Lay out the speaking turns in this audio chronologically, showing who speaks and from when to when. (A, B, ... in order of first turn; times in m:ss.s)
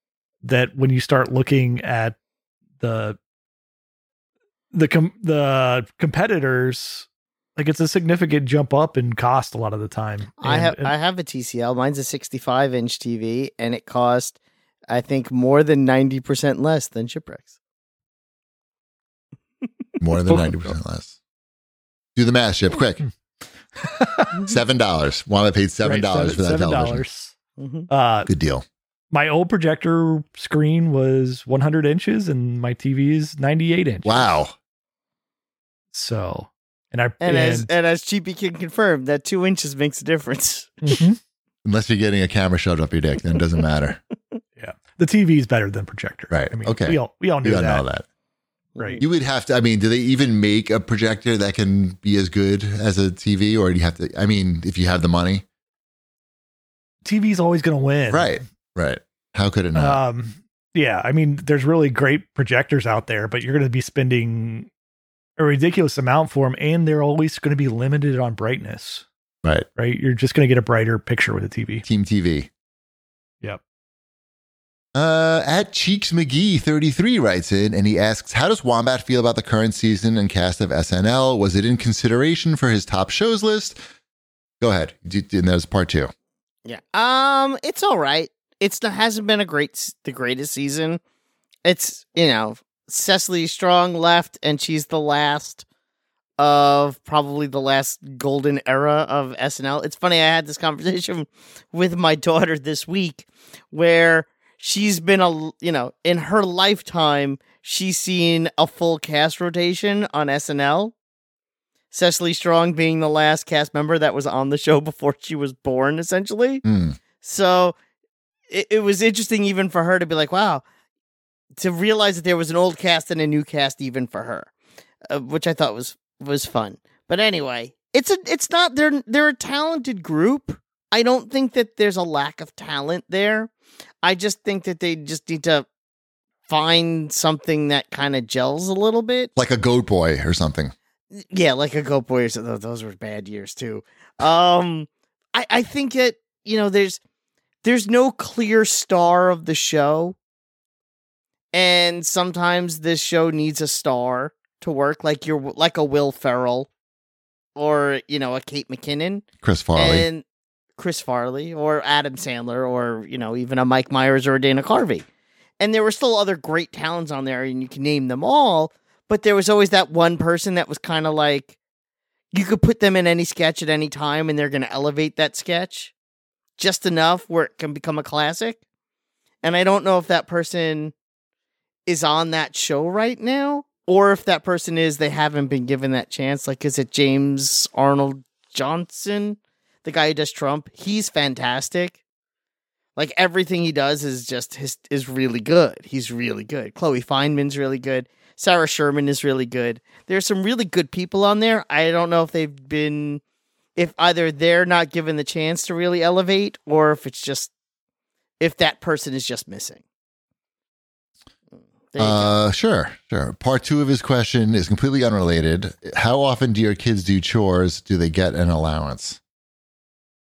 0:00.4-0:02.2 A
0:02.8-0:03.2 A
0:04.7-0:10.9 A
0:10.4-0:14.4 B
0:14.9-0:17.5 B
0:20.0-0:21.2 C
0:22.2-0:23.0 C
0:23.8-0:24.4 A
0:24.4-0:27.0 C
0:25.8-0:27.3 A
0:27.6-0:27.9 B
0:27.9-0:28.3 A
0:28.3-0:28.6 C
0:29.1-0:34.3 A
0:34.0-0:34.6 C
0:35.9-0:37.7 A
0:37.2-0:41.0 B
0:40.8-0:41.2 A
0:41.6-0:44.0 C
0:44.6-0:47.8 A
0:46.3-0:48.0 C
0:48.8-0:49.0 B
0:49.0-0:55.4 C
0:57.0-0:58.4 A
0:58.1-1:00.0 C
0:59.7-1:04.7 A
1:05.4-1:09.0 A
1:09.8-1:11.8 A
1:11.8-1:12.5 C
1:14.9-1:23.8 C
1:24.6-1:26.1 C
1:26.6-1:31.0 B
1:31.6-1:35.6 B
1:36.4-1:50.9 B
1:51.9-1:56.6 B
1:56.6-1:57.0 C
1:57.2-1:57.7 B
1:58.5-2:00.6 B
2:01.6-2:04.5 B
2:05.1-2:13.5 B
2:14.0-2:15.7 B
2:16.5-2:19.3 B
2:19.4-2:20.7 C
2:21.1-2:27.0 B
2:27.6-2:30.2 B
2:31.5-2:36.7 B
2:37.6-2:40.2 B
2:39.4-2:40.1 C
2:40.8-2:45.0 B
2:45.6-2:51.6 B
2:52.3-2:55.9 B
2:56.6-2:58.6 B
2:59.4-3:00.9 B
3:01.9-3:12.0 B
3:13.0-3:23.2 B
3:23.8-3:27.5 B
3:28.4-3:29.8 B
3:31.6-3:32.4 B
3:32.0-3:39.2 C